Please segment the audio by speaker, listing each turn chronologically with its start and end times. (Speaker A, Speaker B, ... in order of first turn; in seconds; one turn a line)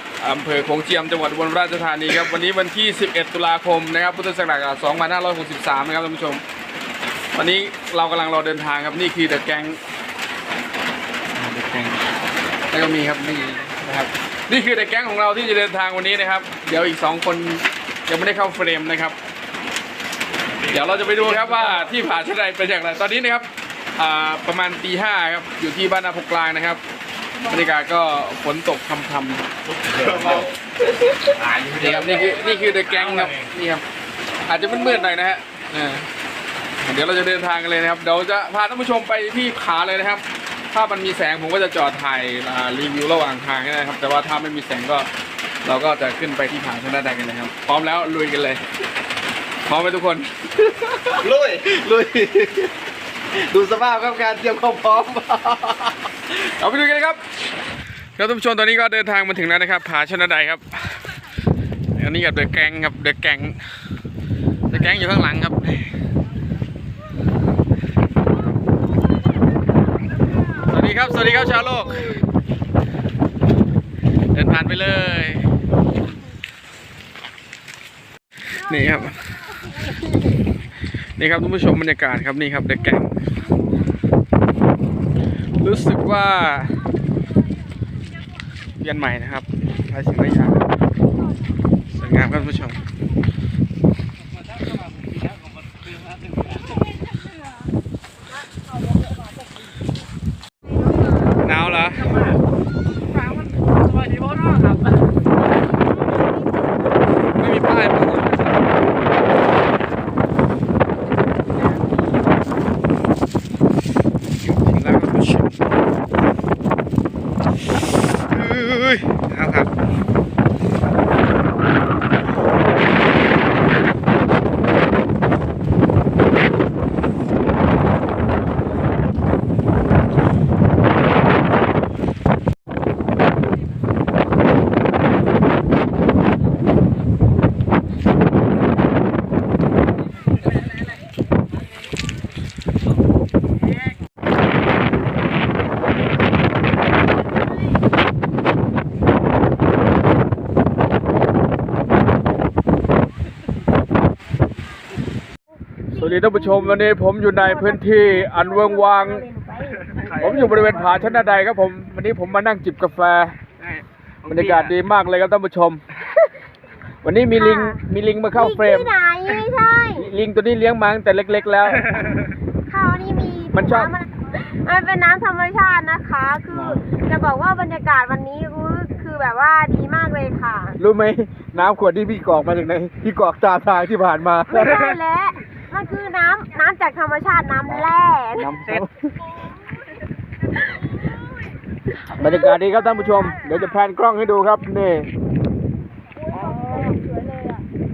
Speaker A: 0.2-6.4
Speaker A: 7.3-9.8
Speaker A: 11.3-12.1
Speaker A: 12.7-19.2
Speaker A: 20.6-26.8
Speaker A: 27.4-29.4
Speaker A: 30.0-30.5
Speaker B: 30.1-30.4
Speaker A: 31.2-33.8
Speaker A: 34.5-36.1
Speaker A: 36.8-45.1
Speaker A: 45.6-48.6
Speaker A: 49.6-52.7
Speaker B: 51.2-51.8
Speaker B: 53.4-55.8
Speaker A: 54.1-55.0
Speaker A: 56.3-57.2
Speaker A: 58.1-61.0
Speaker A: 61.9-63.6
Speaker A: 64.7-65.9
Speaker A: 70.6-72.2
Speaker A: 74.3-75.5
Speaker A: 78.5-79.2
Speaker A: 81.2-83.2
Speaker A: 85.6-86.8
Speaker A: 88.8-90.6
Speaker A: 91.9-92.8
Speaker A: 101.3-102.4
Speaker A: 107.3-108.4
Speaker A: 114.4-115.5
Speaker A: 118.3-119.7
Speaker A: 155.9-159.3
Speaker C: 156.0-156.9
Speaker C: 157.4-160.7
Speaker A: 160.1-163.3
Speaker A: 164.2-165.8
Speaker A: 167.0-169.4
Speaker C: 167.3-167.8
Speaker C: 168.3-170.1
Speaker A: 169.9-172.2
Speaker C: 172.7-180.8
Speaker A: 173.5-173.9
Speaker A: 176.5-176.8
Speaker A: 180.8-185.0
Speaker C: 184.5-188.5
Speaker A: 187.7-189.1
Speaker C: 190.6-191.1
Speaker A: 191.9-195.1
Speaker C: 196.3-197.6